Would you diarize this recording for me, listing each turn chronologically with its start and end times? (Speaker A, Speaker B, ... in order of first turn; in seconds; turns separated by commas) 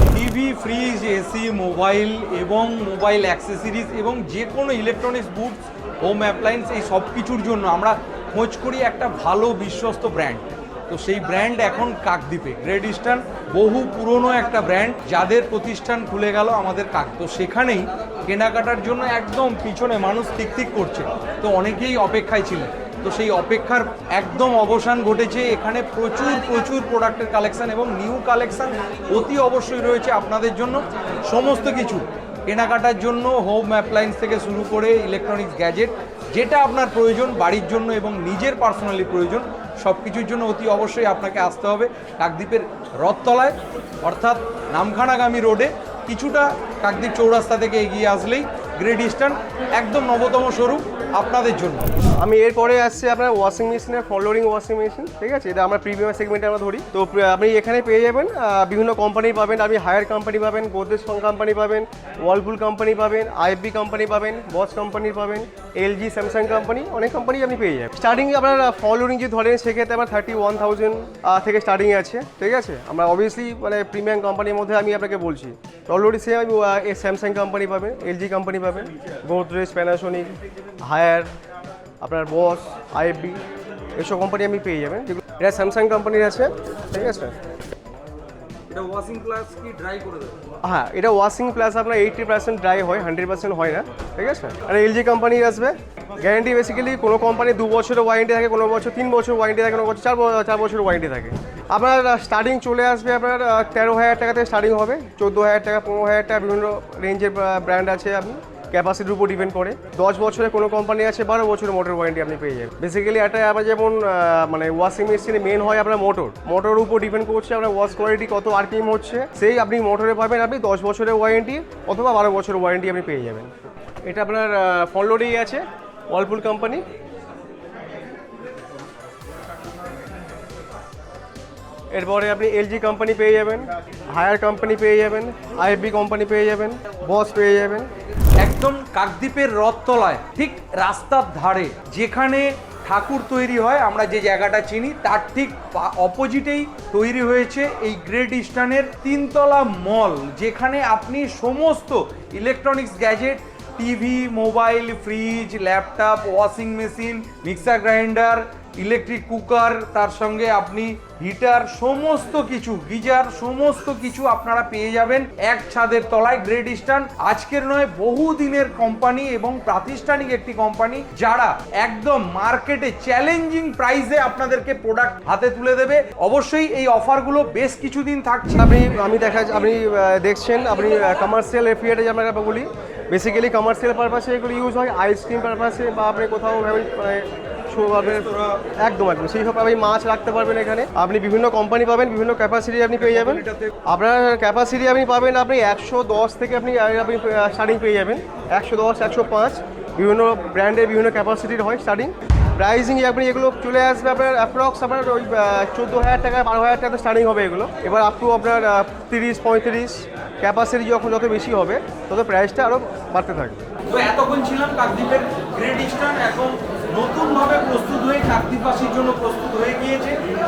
Speaker A: 0.1-51.9, Speaker B: 52.2-81.3, Speaker B: 82.0-83.4, Speaker B: 84.0-87.4, Speaker A: 88.7-90.4, Speaker B: 90.6-123.5, Speaker B: 124.0-126.8, Speaker B: 131.9-137.9, Speaker A: 138.4-178.7, Speaker B: 178.6-188.3, Speaker A: 188.0-188.6, Speaker B: 188.8-213.7, Speaker A: 192.9-193.7, Speaker A: 213.9-220.2